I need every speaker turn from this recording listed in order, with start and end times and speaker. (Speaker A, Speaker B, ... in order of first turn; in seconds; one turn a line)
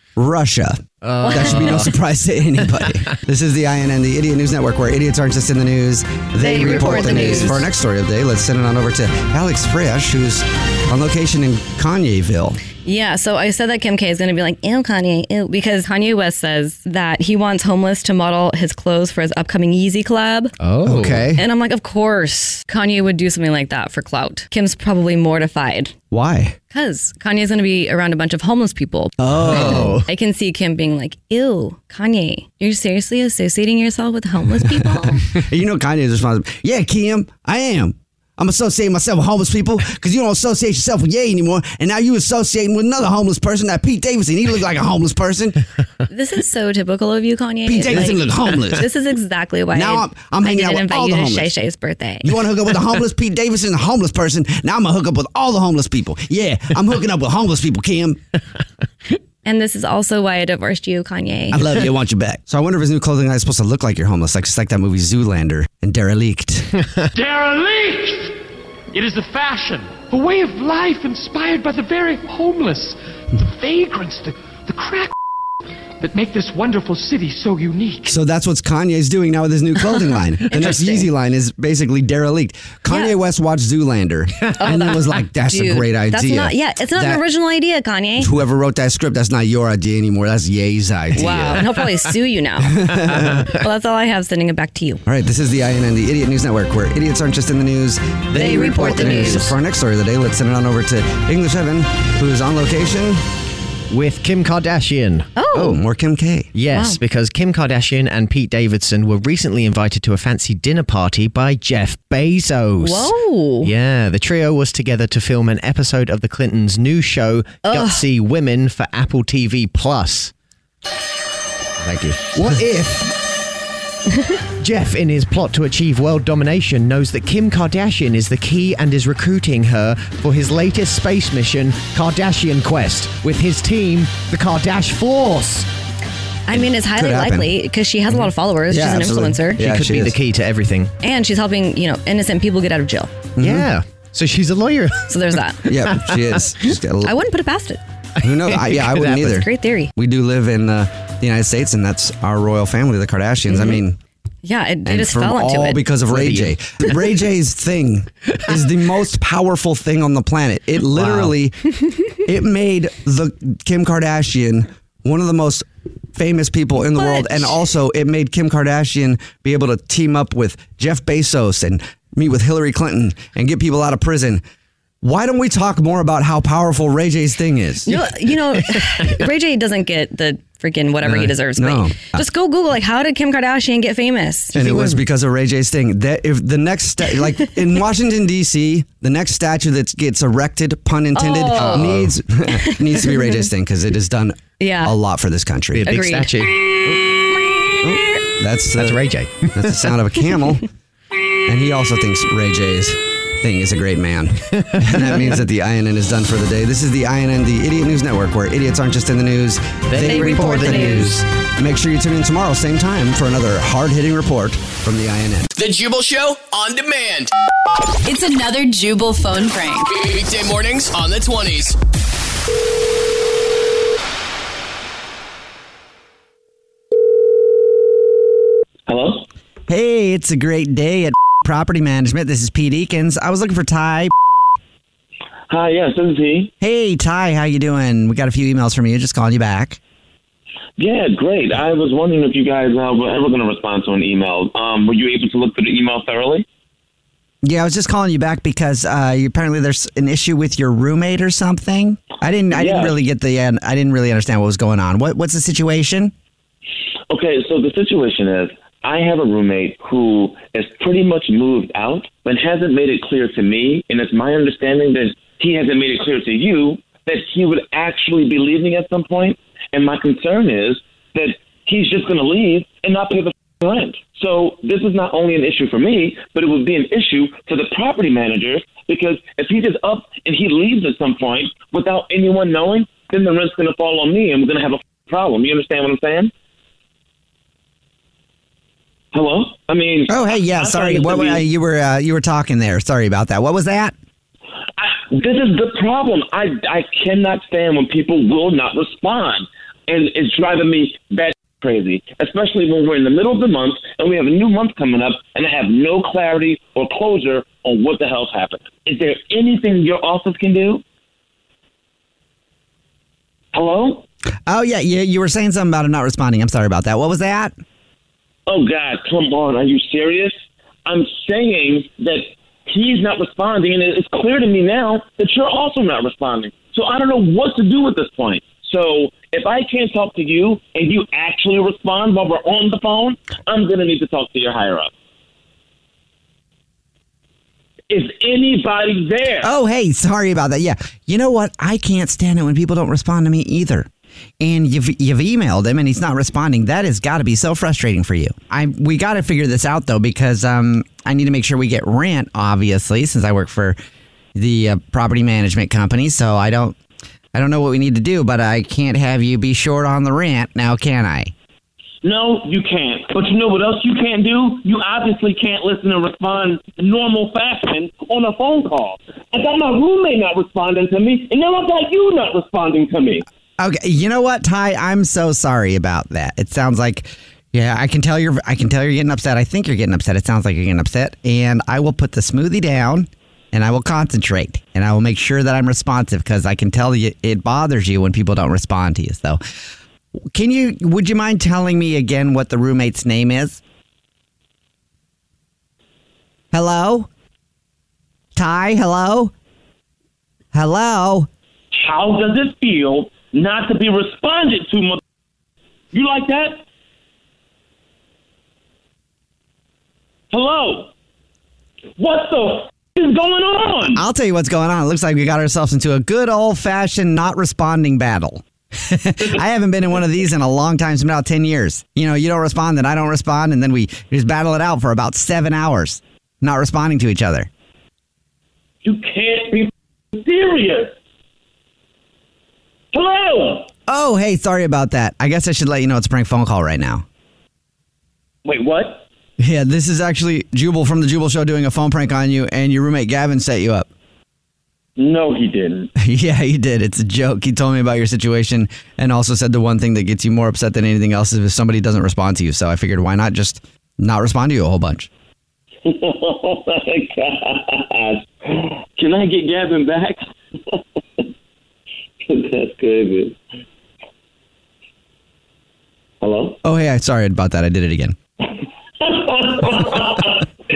Speaker A: 0.2-12.6
Speaker B: 1.0-2.0
Speaker C: 1.2-1.9
Speaker C: 6.4-7.7
Speaker B: 6.8-7.5
Speaker C: 12.8-20.5
Speaker B: 20.6-21.3
Speaker A: 20.8-21.4
Speaker C: 21.4-25.9
Speaker A: 26.1-26.6
Speaker C: 26.7-35.3
Speaker A: 29.2-30.0
Speaker B: 29.4-30.1
Speaker A: 34.7-45.6
Speaker C: 46.1-52.4
Speaker A: 47.7-48.9
Speaker A: 49.7-51.5
Speaker A: 52.2-58.2
Speaker C: 59.5-61.8
Speaker A: 61.5-66.8
Speaker D: 67.1-68.4
Speaker D: 68.9-75.1
Speaker D: 76.0-78.2
Speaker A: 78.1-87.2
Speaker C: 80.5-81.1
Speaker C: 84.6-88.3
Speaker A: 88.2-91.7
Speaker C: 91.2-95.0
Speaker A: 92.6-93.5
Speaker B: 93.1-93.5
Speaker A: 95.0-103.2
Speaker C: 98.3-99.5
Speaker B: 98.8-99.5
Speaker B: 103.9-105.3
Speaker C: 105.4-105.8
Speaker A: 105.5-106.5
Speaker B: 106.5-120.3
Speaker C: 106.7-107.0
Speaker C: 112.8-113.7
Speaker C: 117.6-118.0
Speaker B: 121.8-123.1
Speaker B: 124.6-135.7
Speaker C: 136.5-139.6
Speaker A: 136.5-137.5
Speaker A: 138.7-140.2
Speaker B: 139.6-140.9
Speaker C: 141.0-143.1
Speaker A: 143.4-143.7
Speaker B: 143.4-145.1
Speaker C: 145.1-145.7
Speaker B: 145.7-146.4
Speaker A: 145.7-147.1
Speaker C: 147.0-147.8
Speaker B: 148.2-149.4
Speaker A: 148.2-154.0
Speaker C: 149.2-149.9
Speaker C: 153.5-153.8
Speaker C: 154.4-155.8
Speaker A: 154.8-161.6
Speaker B: 156.1-156.9
Speaker B: 160.9-161.3
Speaker A: 162.2-174.4
Speaker C: 166.9-167.5
Speaker A: 175.0-177.9
Speaker C: 177.9-184.6
Speaker A: 181.1-182.2
Speaker A: 184.5-195.9
Speaker B: 184.6-185.0
Speaker C: 191.2-192.0
Speaker B: 191.6-192.2
Speaker C: 192.5-193.5
Speaker C: 194.6-194.9
Speaker B: 195.7-196.9
Speaker C: 195.9-196.3
Speaker A: 197.8-200.7
Speaker B: 198.8-199.9
Speaker A: 201.4-215.5
Speaker B: 204.6-205.4
Speaker B: 209.9-211.2
Speaker C: 210.0-211.2
Speaker E: 215.6-217.3
Speaker F: 218.1-220.0
Speaker E: 220.0-221.8
Speaker G: 228.9-229.3
Speaker A: 229.7-234.1
Speaker G: 235.5-236.5
Speaker A: 236.6-239.8
Speaker G: 240.8-246.4
Speaker A: 247.4-256.1
Speaker G: 252.5-252.9
Speaker G: 257.1-286.3
Speaker G: 289.1-291.4
Speaker A: 290.1-293.9
Speaker G: 294.8-310.8
Speaker G: 313.5-314.0
Speaker A: 314.5-317.5
Speaker G: 318.5-320.3
Speaker G: 320.9-334.9
Speaker G: 337.9-339.5
Speaker A: 339.4-343.9
Speaker A: 344.4-353.8
Speaker A: 354.4-356.8
Speaker A: 357.3-361.3
Speaker G: 362.0-373.2
Speaker A: 373.6-389.4
Speaker A: 390.3-393.6
Speaker A: 396.5-397.1
Speaker A: 398.4-399.3
Speaker A: 400.5-401.3
Speaker G: 401.7-405.0
Speaker G: 405.9-406.6
Speaker G: 410.3-410.9
Speaker G: 412.0-414.0
Speaker A: 413.9-427.5
Speaker G: 428.8-430.9
Speaker G: 432.9-433.7
Speaker A: 433.9-437.1
Speaker G: 438.4-439.0
Speaker A: 439.4-443.9
Speaker G: 445.0-445.9
Speaker A: 446.0-455.1
Speaker G: 455.9-460.2
Speaker G: 462.3-463.4
Speaker G: 466.2-466.6
Speaker A: 466.6-468.2
Speaker G: 469.0-470.4